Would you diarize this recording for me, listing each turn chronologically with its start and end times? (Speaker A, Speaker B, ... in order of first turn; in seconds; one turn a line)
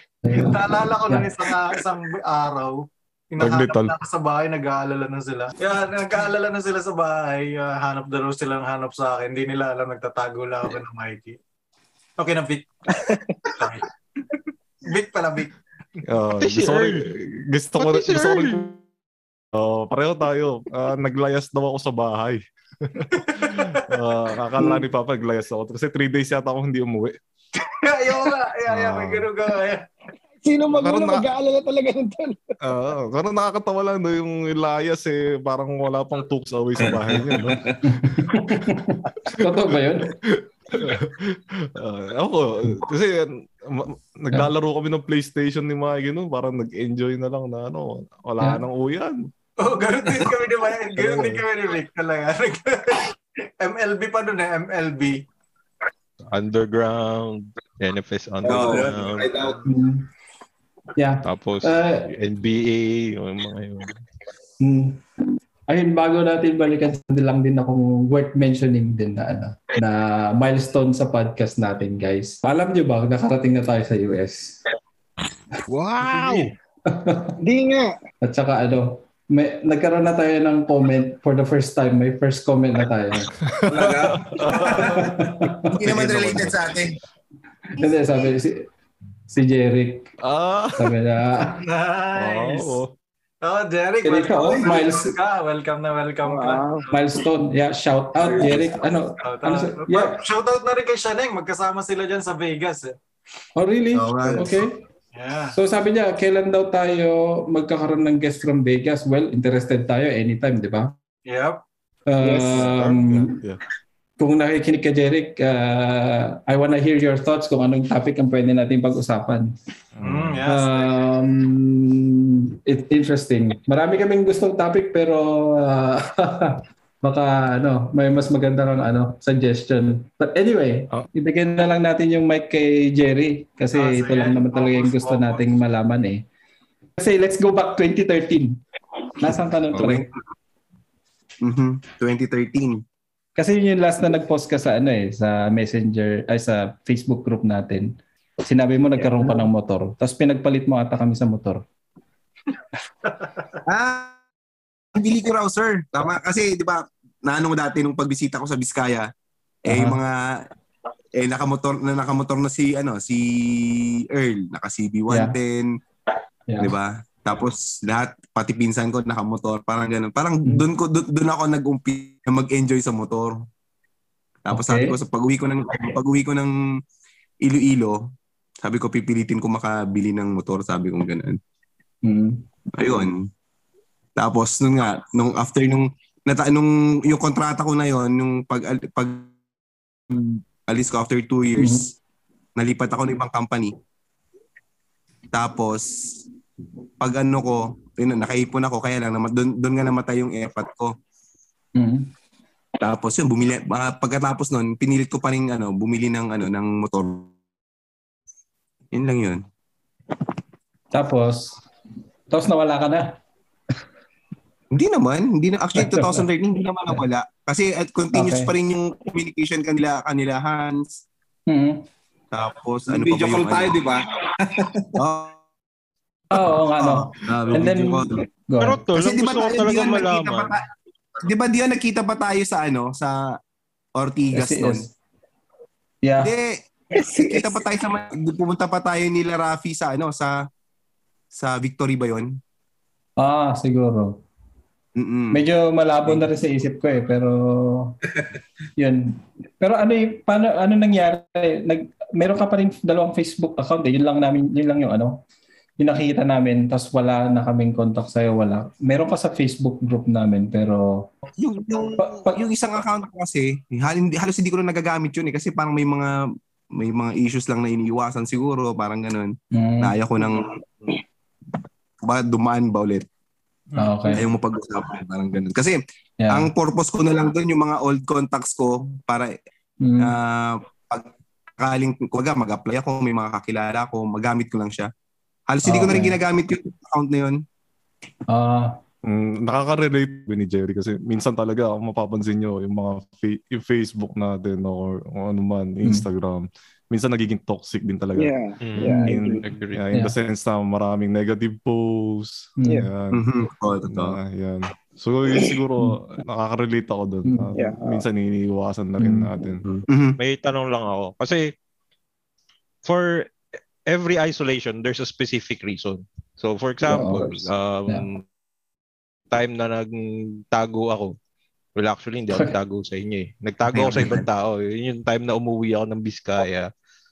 Speaker A: 0.2-1.3
Speaker B: 0.3-11.4
Speaker C: 3.4-3.9
Speaker B: 12.2-16.0
Speaker D: 12.9-13.4
Speaker C: 16.1-18.8
Speaker E: 16.4-17.1
Speaker E: 17.8-18.8
Speaker C: 19.5-27.2
Speaker B: 23.1-23.9
Speaker A: 24.6-24.9
Speaker B: 27.6-29.8
Speaker C: 28.7-29.3
Speaker D: 30.4-32.4
Speaker C: 30.7-31.3
Speaker C: 32.6-37.6
Speaker F: 36.8-37.8
Speaker A: 37.8-40.1
Speaker C: 38.2-38.6
Speaker C: 39.2-49.3
Speaker B: 49.6-55.2
Speaker C: 51.0-51.4
Speaker E: 56.3-59.5
Speaker G: 58.4-59.5
Speaker A: 59.6-60.1
Speaker A: 61.0-62.1
Speaker E: 61.2-64.0
Speaker A: 64.6-65.0
Speaker A: 65.7-74.6
Speaker E: 75.7-76.5
Speaker B: 76.0-76.5
Speaker A: 76.9-77.4
Speaker D: 77.4-78.0
Speaker A: 78.2-83.3
Speaker C: 83.4-86.6
Speaker F: 83.7-84.6
Speaker B: 84.5-85.1
Speaker A: 84.8-85.7
Speaker G: 85.8-87.0
Speaker A: 87.8-88.7
Speaker A: 89.3-90.1
Speaker C: 90.2-90.9
Speaker A: 90.8-91.6
Speaker B: 91.5-92.8
Speaker C: 92.2-92.9
Speaker B: 93.4-96.9
Speaker A: 94.0-95.2
Speaker D: 96.2-96.8
Speaker A: 96.9-100.2
Speaker B: 99.2-103.0
Speaker A: 103.6-104.8
Speaker G: 103.9-104.6
Speaker B: 105.1-105.6
Speaker A: 105.5-110.9
Speaker B: 111.3-111.6
Speaker A: 112.1-113.4
Speaker D: 112.2-112.7
Speaker C: 112.5-113.6
Speaker A: 114.2-119.5
Speaker C: 120.0-120.4
Speaker B: 120.0-120.9
Speaker A: 120.5-136.2
Speaker B: 133.7-135.4
Speaker A: 137.0-138.6
Speaker A: 139.2-140.1
Speaker G: 139.8-140.0
Speaker G: 141.4-142.8
Speaker A: 143.4-151.6
Speaker G: 153.7-154.2
Speaker G: 154.9-159.1
Speaker A: 159.7-160.0
Speaker G: 159.7-160.5
Speaker G: 161.2-165.7
Speaker A: 165.1-165.4
Speaker A: 166.5-166.7
Speaker G: 166.6-173.4
Speaker G: 174.5-176.5
Speaker A: 174.5-175.0
Speaker G: 177.4-178.0
Speaker G: 178.6-181.4
Speaker A: 182.0-182.4
Speaker G: 182.8-183.3
Speaker G: 184.2-189.3
Speaker G: 190.7-191.9
Speaker A: 191.6-191.8
Speaker G: 192.6-193.8
Speaker G: 195.3-196.1
Speaker G: 197.0-200.9
Speaker A: 201.8-202.1
Speaker G: 202.8-207.3
Speaker G: 208.9-209.4
Speaker A: 210.9-211.6
Speaker A: 212.3-213.2
Speaker G: 214.7-221.0
Speaker A: 215.8-216.3
Speaker A: 218.1-218.5
Speaker A: 221.5-221.9
Speaker G: 222.3-223.8
Speaker F: 222.9-224.9
Speaker G: 225.0-225.4
Speaker A: 226.3-228.8
Speaker G: 226.8-228.2
Speaker E: 228.6-230.6
Speaker G: 228.9-230.7
Speaker G: 231.2-233.3
Speaker G: 234.0-234.9
Speaker A: 234.3-234.9
Speaker A: 236.0-236.3
Speaker G: 236.2-236.6
Speaker D: 236.9-237.6
Speaker G: 237.2-240.4
Speaker G: 241.3-242.4
Speaker A: 243.2-244.2
Speaker G: 245.0-245.4
Speaker A: 245.3-247.9
Speaker A: 248.8-255.2
Speaker A: 255.8-261.1
Speaker G: 261.4-266.1
Speaker A: 262.0-262.4
Speaker G: 266.7-270.9
Speaker A: 269.5-269.9
Speaker G: 272.0-273.1
Speaker B: 273.7-274.1
Speaker A: 273.8-274.2
Speaker G: 274.1-279.4
Speaker A: 276.2-276.5
Speaker A: 279.8-280.1
Speaker G: 280.0-284.9
Speaker G: 285.5-287.4
Speaker A: 285.6-286.2
Speaker A: 288.3-288.8
Speaker C: 289.0-298.3
Speaker D: 298.2-299.4
Speaker E: 298.6-299.8
Speaker C: 299.1-303.2
Speaker A: 302.6-302.9
Speaker G: 303.1-304.2
Speaker C: 303.9-309.6
Speaker A: 307.2-307.5
Speaker D: 307.6-308.1
Speaker A: 309.0-309.4
Speaker G: 309.9-310.2
Speaker E: 310.2-311.5
Speaker E: 312.8-318.2
Speaker A: 316.8-318.1
Speaker E: 319.3-321.2
Speaker E: 321.8-326.7
Speaker G: 323.7-324.2